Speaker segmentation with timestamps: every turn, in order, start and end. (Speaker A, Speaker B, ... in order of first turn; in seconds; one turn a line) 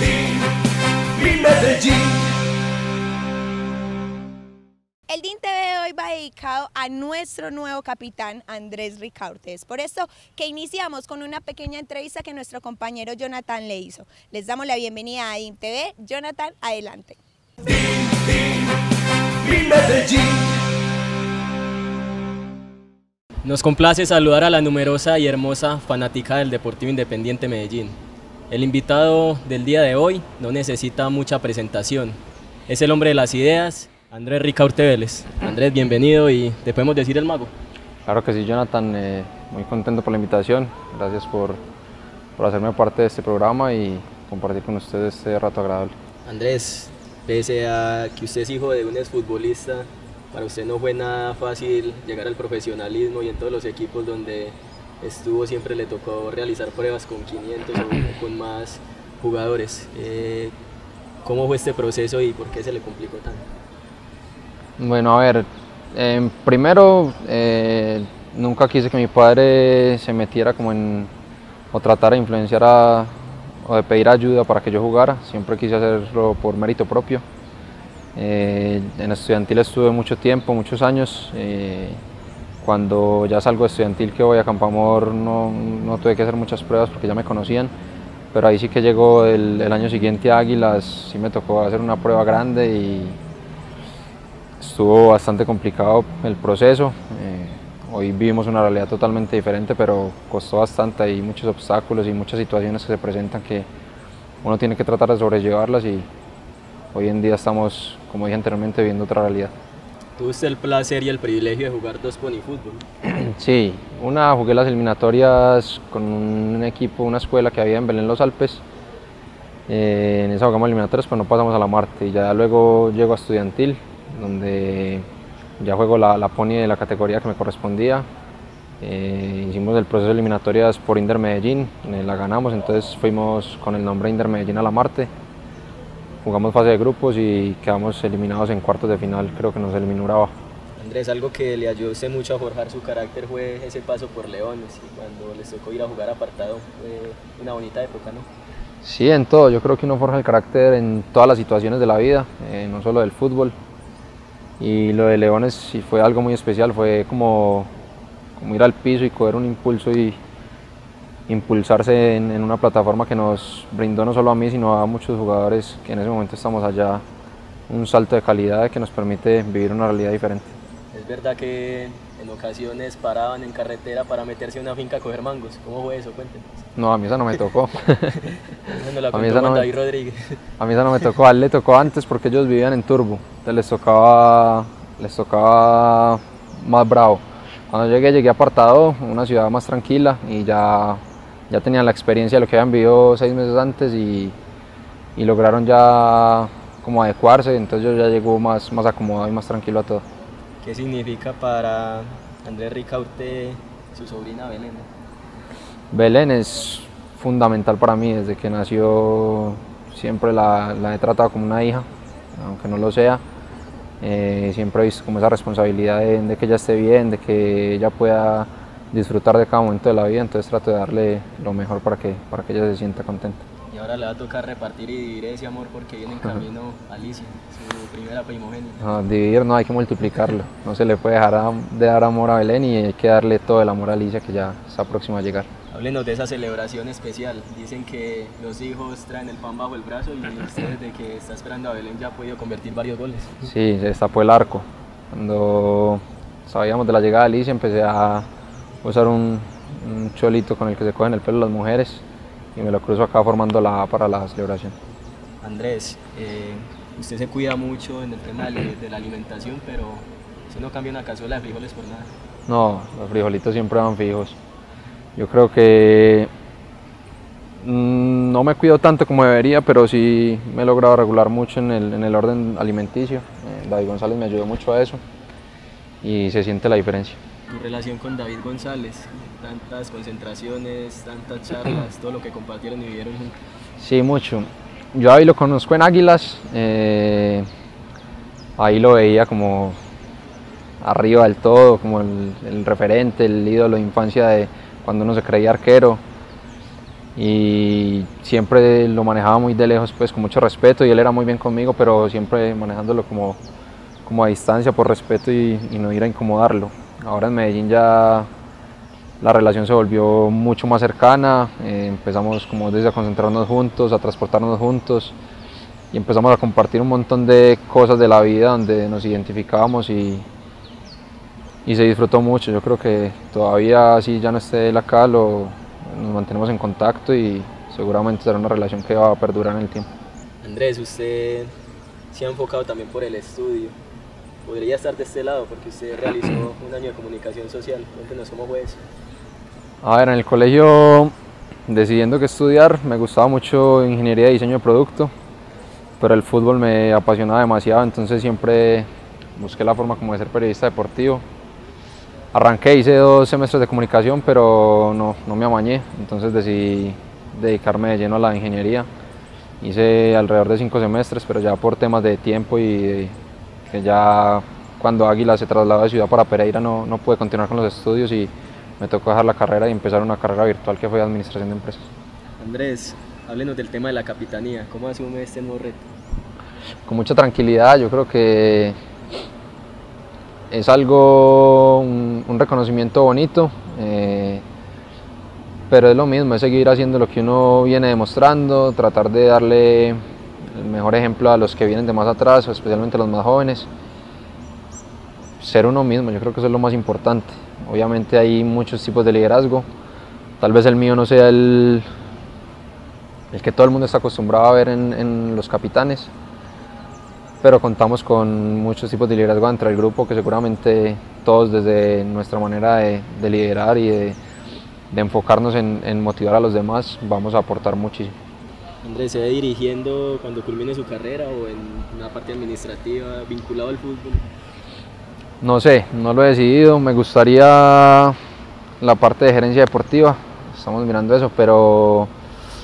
Speaker A: 1.4-2.0
Speaker A: 5.1-17.2
Speaker B: 23.4-28.0
Speaker B: 28.5-37.5
Speaker C: 38.0-41.6
Speaker C: 42.4-45.9
Speaker B: 46.2-60.5
Speaker B: 61.2-63.5
Speaker C: 64.8-71.1
Speaker C: 71.7-77.2
Speaker C: 78.2-82.0
Speaker C: 82.6-87.7
Speaker C: 88.3-93.2
Speaker C: 94.6-103.7
Speaker C: 104.4-106.1
Speaker C: 106.9-109.5
Speaker B: 110.2-112.8
Speaker C: 113.0-118.6
Speaker C: 119.7-125.0
Speaker C: 125.6-128.1
Speaker C: 128.8-135.1
Speaker C: 136.2-140.3
Speaker B: 140.8-148.3
Speaker C: 148.8-153.6
Speaker C: 154.6-157.7
Speaker C: 158.4-160.2
Speaker C: 161.3-167.0
Speaker C: 167.7-170.5
Speaker B: 170.9-176.6
Speaker C: 176.7-178.2
Speaker B: 178.7-180.4
Speaker C: 179.1-179.7
Speaker C: 180.6-194.3
Speaker C: 195.2-200.0
Speaker B: 200.6-204.9
Speaker C: 205.9-213.2
Speaker C: 214.0-223.4
Speaker B: 223.7-228.8
Speaker C: 228.8-235.5
Speaker B: 235.7-243.3
Speaker C: 243.4-248.3
Speaker C: 248.8-252.0
Speaker C: 252.6-254.7
Speaker B: 255.4-262.1
Speaker C: 262.5-264.4
Speaker C: 265.2-266.3
Speaker C: 267.6-275.0
Speaker C: 276.0-277.2
Speaker B: 277.5-283.4
Speaker C: 283.8-287.5
Speaker C: 288.6-289.8
Speaker C: 290.8-296.0
Speaker C: 297.1-303.4
Speaker C: 304.0-308.3
Speaker C: 309.2-315.1
Speaker C: 315.9-320.3
Speaker C: 321.6-329.9
Speaker B: 330.4-331.5
Speaker B: 332.1-333.8
Speaker B: 334.4-338.8
Speaker C: 339.8-341.1
Speaker C: 341.7-345.1
Speaker C: 346.0-351.2
Speaker C: 352.3-358.9
Speaker C: 359.6-363.1
Speaker C: 363.7-371.9
Speaker B: 372.4-375.9
Speaker C: 376.9-378.8
Speaker C: 380.5-384.4
Speaker C: 385.7-393.7
Speaker C: 395.4-399.7
Speaker C: 400.4-401.9
Speaker C: 403.3-406.1
Speaker C: 407.4-414.2
Speaker C: 414.9-418.1
Speaker B: 418.8-424.2
Speaker C: 425.4-428.2
Speaker C: 428.8-432.1